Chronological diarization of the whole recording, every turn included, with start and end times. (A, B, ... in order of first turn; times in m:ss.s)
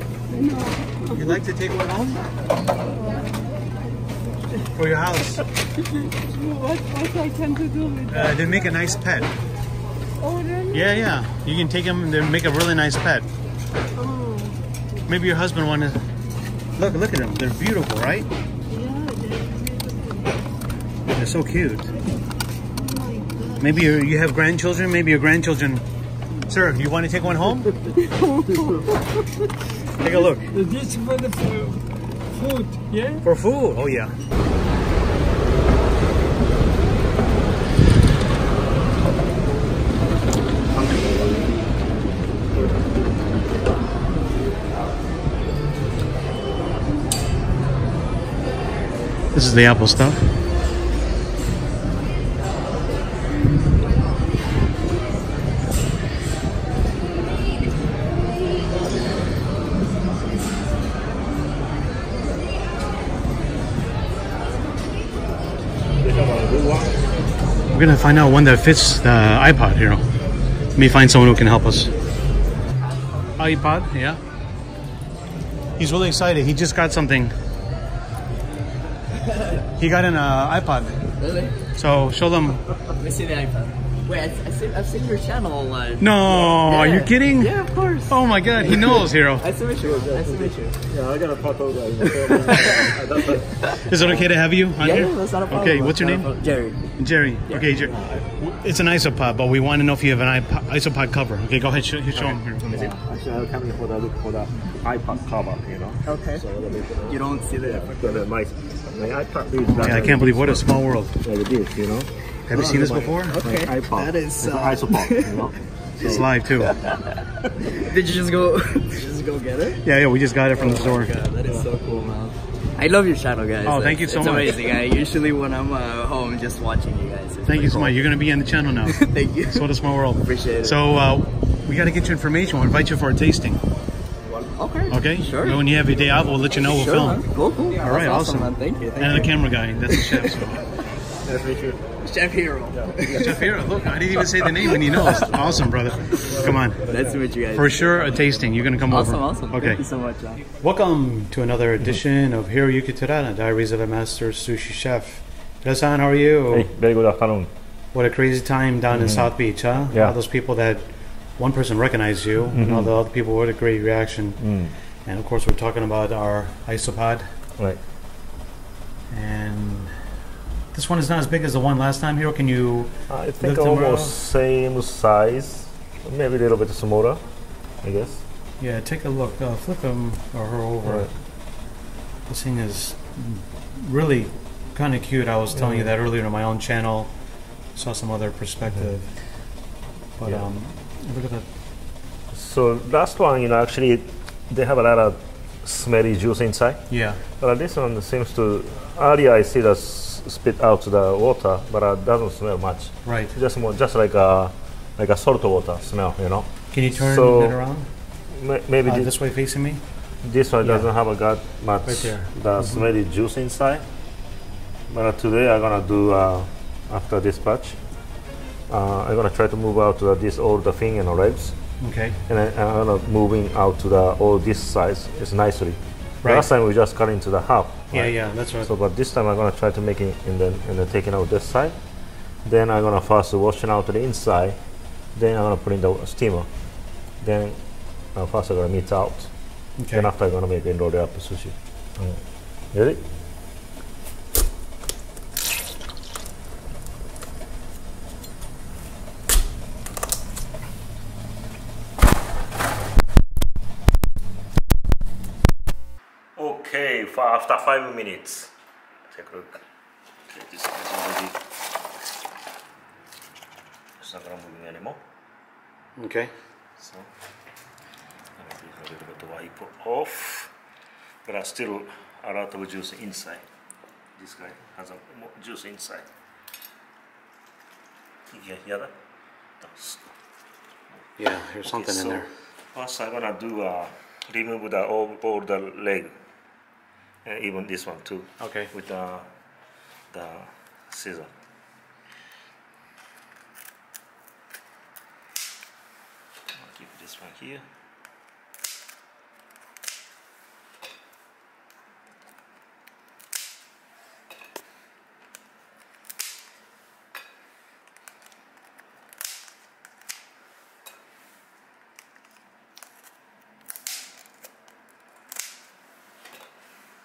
0:00.3-0:01.3 A
0:01.1-0:02.2 B
0:04.7-0:05.4 B
0:06.0-0:08.4 A
0:08.1-0:09.3 B
0:10.2-0:11.0 A
0:10.7-0:13.2 B
0:14.0-0:14.6 A
0:15.1-0:16.0 B
0:16.8-0:18.3 B
0:18.7-0:20.3 A
0:21.1-0:21.9 B
0:22.8-0:23.9 A
0:23.6-0:25.8 B
0:26.5-0:27.7 B
0:28.0-0:29.2 A
0:30.0-0:30.5 B
0:30.0-0:33.2 A
0:33.2-0:34.1 B
0:49.3-0:50.2 B
1:06.0-1:07.1 C
1:07.7-1:10.1 B
1:10.7-1:11.9 B
1:13.4-1:14.2 B
1:15.8-1:17.3 B
1:19.8-1:21.0 B
1:21.2-1:21.6 D
1:21.7-1:22.7 B
1:22.9-1:30.8 D
1:26.0-1:29.4 B
1:26.3-1:26.6 C
1:29.8-1:35.1 C
1:32.0-1:33.7 D
1:33.8-1:36.3 B
1:34.8-1:37.0 D
1:37.0-1:42.6 B
1:37.8-1:38.3 C
1:42.1-1:56.3 C
1:46.0-1:46.4 D
1:47.0-1:48.2 D
1:49.8-1:51.2 B
1:52.4-1:53.4 B
1:52.5-1:57.2 D
1:56.0-1:56.8 B
1:57.7-1:59.8 D
1:59.8-2:01.1 B
2:00.6-2:08.1 D
2:01.4-2:01.7 C
2:03.6-2:04.6 B
2:07.4-2:13.6 B
2:08.8-2:10.8 D
2:14.2-2:15.8 D
2:14.9-2:20.6 B
2:16.6-2:20.4 D
2:21.2-2:22.0 C
2:22.0-2:23.3 D
2:22.7-2:23.7 C
2:23.1-2:26.9 B
2:24.4-2:25.6 C
2:24.7-2:25.1 D
2:26.2-2:28.3 D
2:27.5-2:29.8 B
2:28.9-2:30.4 D
2:30.6-2:36.7 B
2:36.5-2:37.5 C
2:37.9-2:44.5 B
2:38.9-2:39.4 C
2:39.9-2:40.2 C
2:42.5-2:42.9 C
2:44.4-2:44.7 C
2:45.0-2:47.3 B
2:49.1-2:50.0 B
2:50.7-2:54.1 B
2:53.1-2:57.2 C
2:57.8-2:58.2 C
2:58.6-3:01.7 B
3:00.8-3:01.1 C
3:02.3-3:11.5 B
3:05.5-3:05.9 C
3:08.7-3:08.9 C
3:12.3-3:27.6 C
3:16.9-3:17.2 B
3:23.0-3:23.4 B
3:26.7-3:27.9 B
3:28.3-3:29.1 C
3:28.8-3:29.8 B
3:30.2-3:33.9 C
3:30.6-3:30.9 B
3:31.8-3:32.9 B
3:34.9-3:37.8 C
3:38.7-3:41.7 C
3:41.8-3:42.2 B
3:42.2-3:54.6 C
3:47.9-3:48.7 B
3:55.1-4:03.0 C
3:59.8-4:00.1 B
4:16.3-4:18.5 C
4:19.1-4:19.6 C
4:20.3-4:21.4 C
4:24.0-4:25.0 C
4:26.0-4:26.3 B
4:26.8-4:27.1 C
4:28.4-4:30.5 C
4:31.2-4:33.4 C
4:34.2-4:36.1 C
4:38.3-4:38.9 C
4:39.6-4:40.2 C
4:41.2-4:42.3 B
4:41.6-4:46.2 C
4:47.2-4:49.3 C
4:48.4-4:48.7 B
4:50.1-4:51.3 C
4:56.5-4:57.6 C